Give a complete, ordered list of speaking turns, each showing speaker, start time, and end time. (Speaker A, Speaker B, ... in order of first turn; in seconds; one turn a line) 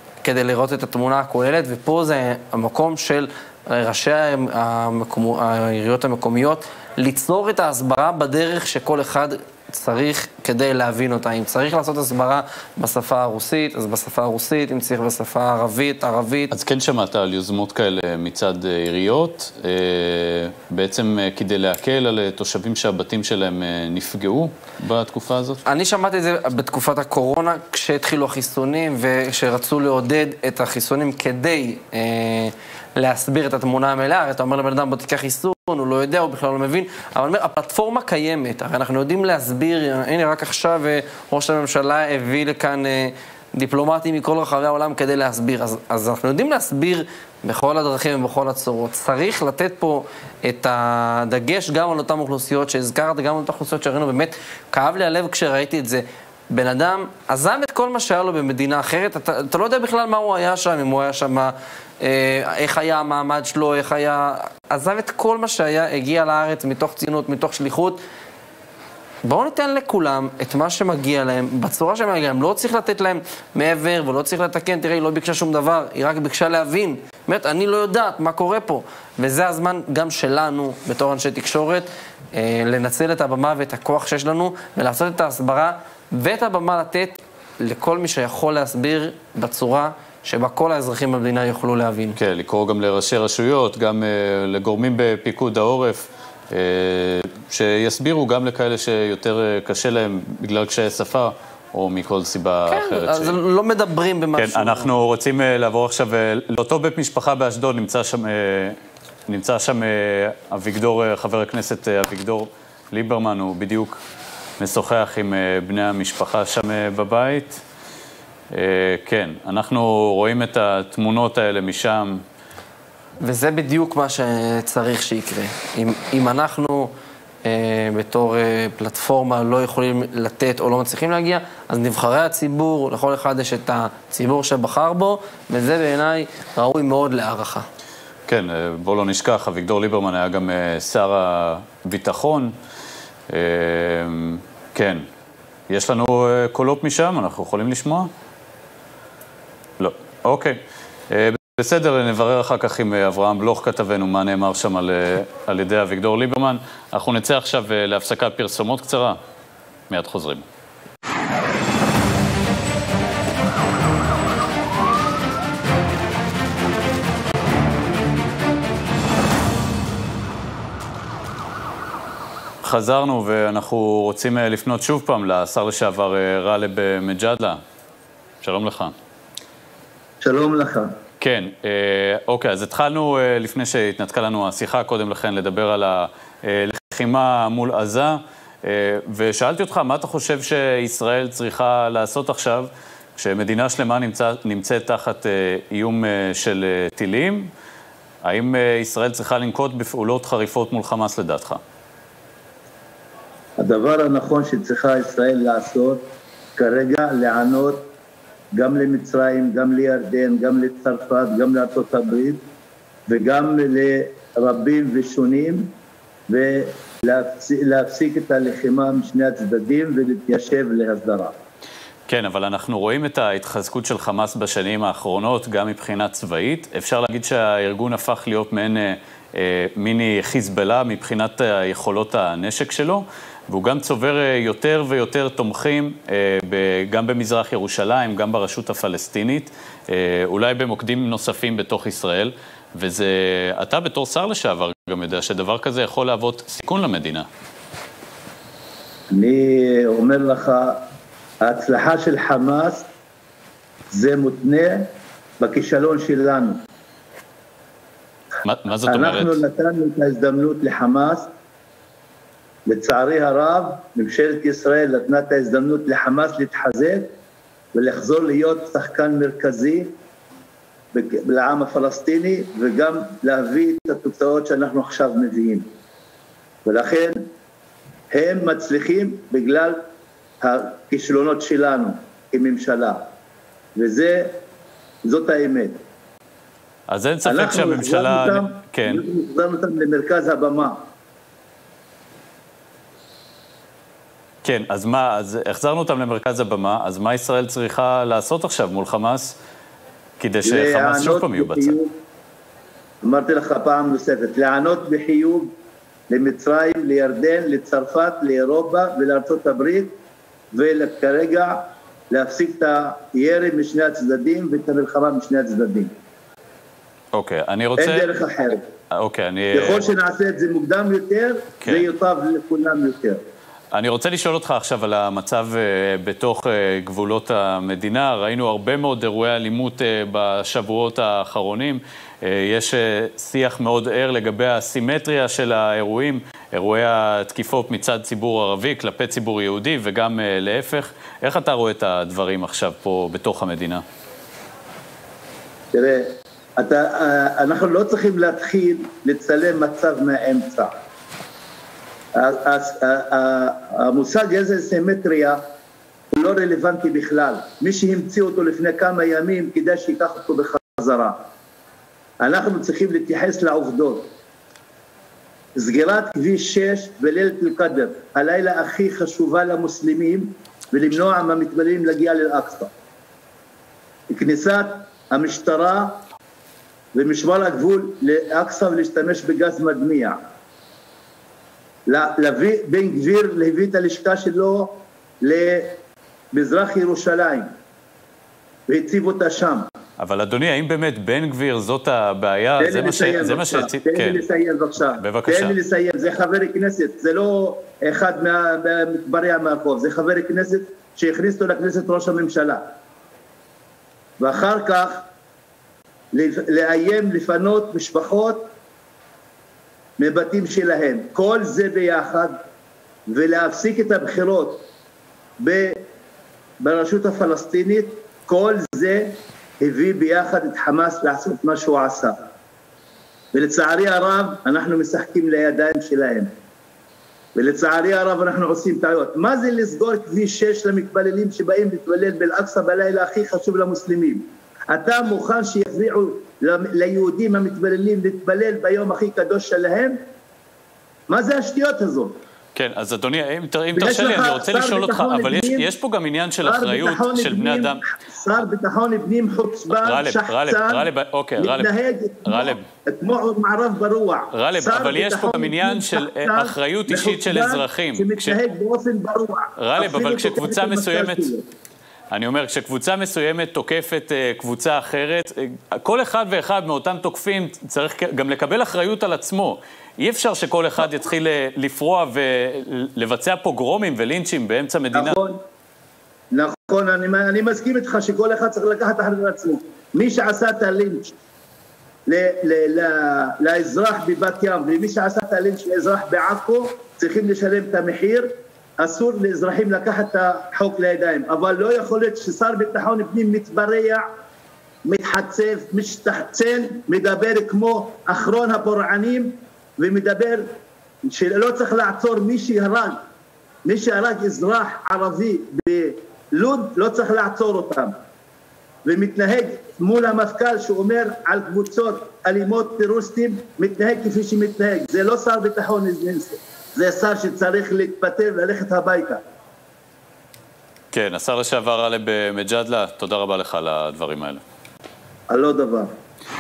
Speaker A: 0.2-16.5
Speaker B: 16.5-25.6
Speaker A: 25.6-68.0
Speaker A: 69.2-92.2
Speaker B: 92.2-103.4
Speaker A: 102.7-104.9
Speaker B: 104.4-108.8
Speaker B: 109.3-114.0
Speaker B: 114.6-117.6
Speaker B: 118.5-122.2
Speaker A: 123.2-126.9
Speaker A: 127.5-137.7
Speaker B: 138.3-142.5
Speaker B: 143.3-145.0
Speaker B: 145.7-148.1
Speaker B: 149.8-150.6
Speaker B: 151.1-159.2
Speaker B: 159.9-160.4
Speaker B: 172.6-177.6
Speaker B: 178.4-178.9
Speaker C: 180.2-180.9
Speaker B: 181.2-197.5
Speaker B: 198.2-201.6
Speaker C: 203.6-206.0
Speaker C: 206.6-207.9
Speaker C: 208.6-212.4
Speaker C: 213.1-215.7
Speaker C: 216.3-221.3
Speaker B: 222.1-247.3
Speaker C: 249.1-250.8
Speaker C: 251.4-252.9
Speaker C: 253.9-254.9
Speaker C: 255.4-256.6
Speaker B: 258.4-259.4
Speaker C: 258.8-261.3
Speaker C: 262.7-267.1
Speaker C: 267.8-269.9
Speaker C: 270.9-275.7
Speaker C: 276.7-277.2
Speaker C: 278.1-279.8
Speaker C: 280.4-283.1
Speaker C: 283.8-284.4
Speaker C: 285.0-285.8
Speaker B: 286.9-289.0
Speaker C: 287.2-290.8
Speaker B: 294.4-299.4
Speaker B: 300.2-301.8
Speaker C: 300.4-301.9
Speaker C: 303.0-305.5
Speaker C: 306.1-309.9
Speaker C: 310.5-315.9
Speaker B: 317.1-318.1
Speaker C: 317.8-318.6
Speaker B: 318.9-319.9
Speaker C: 319.5-323.2
Speaker B: 323.7-343.8
Speaker C: 345.7-350.7
Speaker C: 352.2-355.4
Speaker C: 356.1-361.2
Speaker C: 362.2-364.1
Speaker C: 365.6-372.7
Speaker C: 374.1-376.0
Speaker C: 376.9-380.2
Speaker C: 381.9-385.8
Speaker C: 386.3-387.5
Speaker C: 388.7-389.7
Speaker B: 390.0-394.2
Speaker C: 392.6-402.6
Speaker B: 395.0-395.6
Speaker C: 404.2-405.0
Speaker C: 406.1-408.5
Speaker C: 410.0-412.4
Speaker C: 413.1-414.6
Speaker C: 415.4-415.8
Speaker C: 416.6-422.2
Speaker C: 423.3-426.3
Speaker C: 427.4-440.0
Speaker C: 441.1-442.1
Speaker B: 442.6-447.8
Speaker C: 443.8-445.7
Speaker C: 446.4-461.4
Speaker B: 449.8-451.7
Speaker B: 452.3-452.6
Speaker B: 454.3-458.4
Speaker B: 459.6-461.3
Speaker B: 462.1-475.2
Speaker C: 474.9-475.4
Speaker C: 476.3-481.1
Speaker C: 482.1-494.1
Speaker C: 494.9-500.5
Speaker C: 501.1-503.0
Speaker C: 503.6-507.9
Speaker C: 508.9-519.2
Speaker B: 520.9-524.4
Speaker C: 525.3-525.9